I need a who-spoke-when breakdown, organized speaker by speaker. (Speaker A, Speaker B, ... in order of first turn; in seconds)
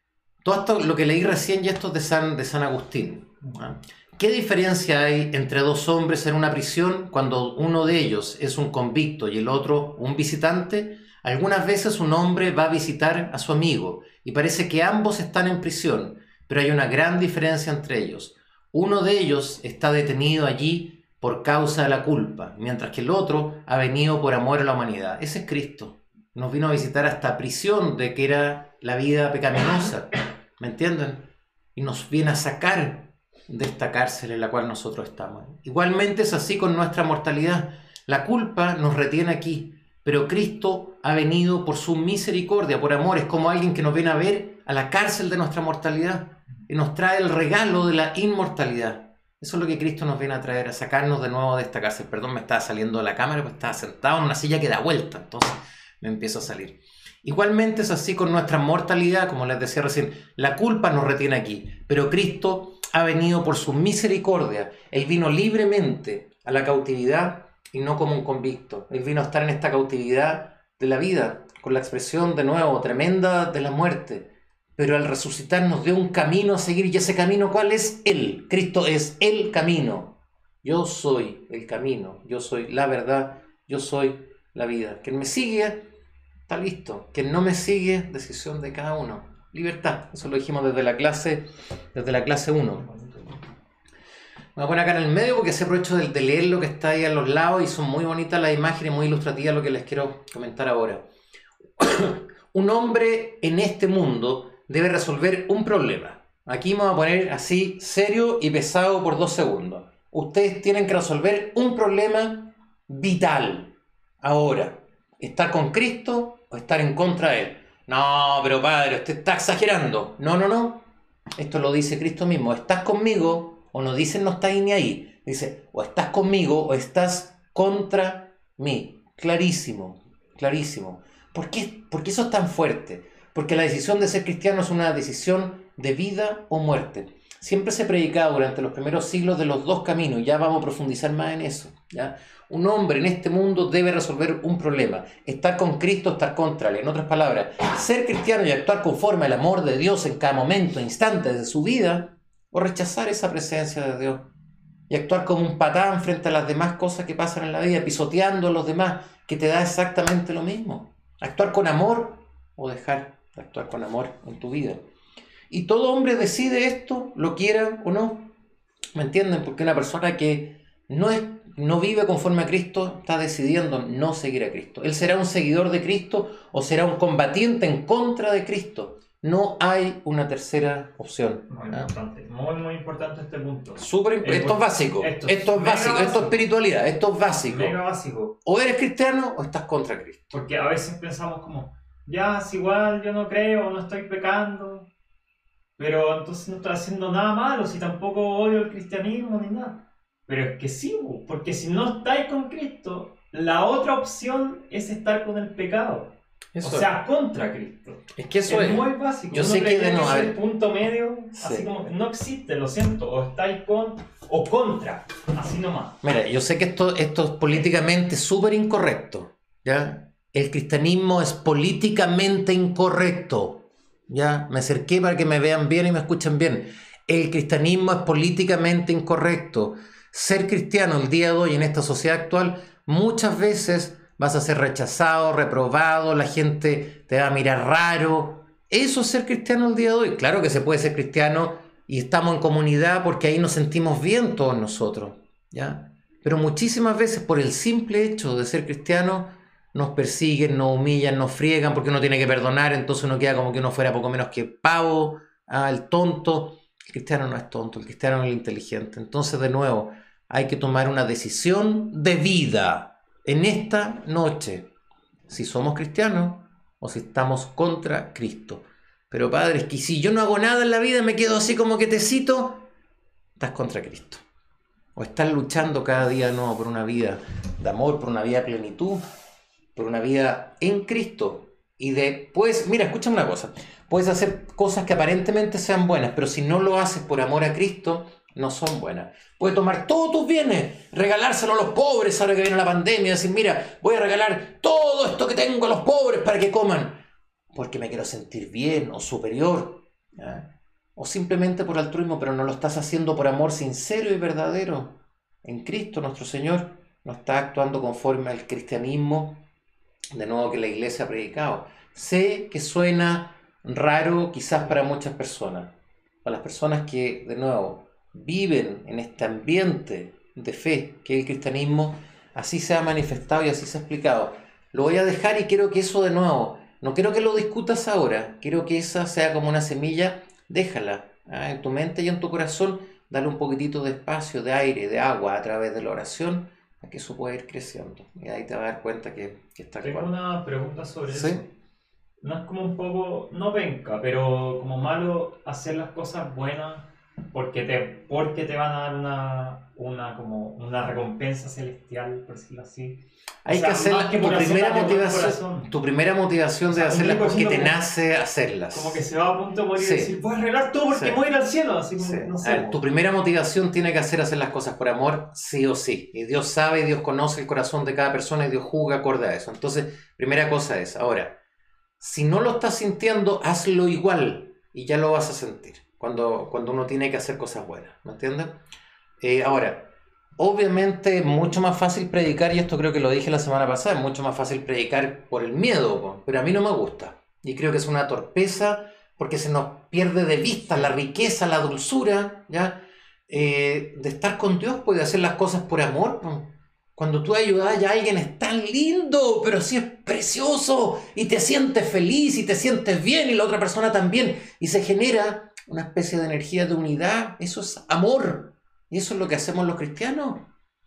Speaker A: 0.4-31.2, 31.8-85.9, 86.5-92.9, 94.5-101.0, 101.8-120.8, 121.4-154.2, 154.9-164.8, 165.5-168.3, 168.9-181.9, 183.8-187.8, 188.4-190.3, 206.5-206.9, 208.1-210.4, 211.4-211.7, 216.0-264.7, 265.3-272.7, 273.4-274.2, 274.9-279.0, 279.7-297.0, 297.5-309.4, 310.1-315.7, 316.2-340.1, 341.1-341.4, 353.4-359.0, 359.7-360.1, 360.9-361.2, 362.0-371.3, 372.0-378.6, 379.2-410.4
Speaker B: 92.8-93.4, 181.5-186.4, 187.4-188.3, 190.3-194.9, 195.8-216.0, 339.8-341.5, 342.2-355.7, 356.7-357.8, 358.7-362.8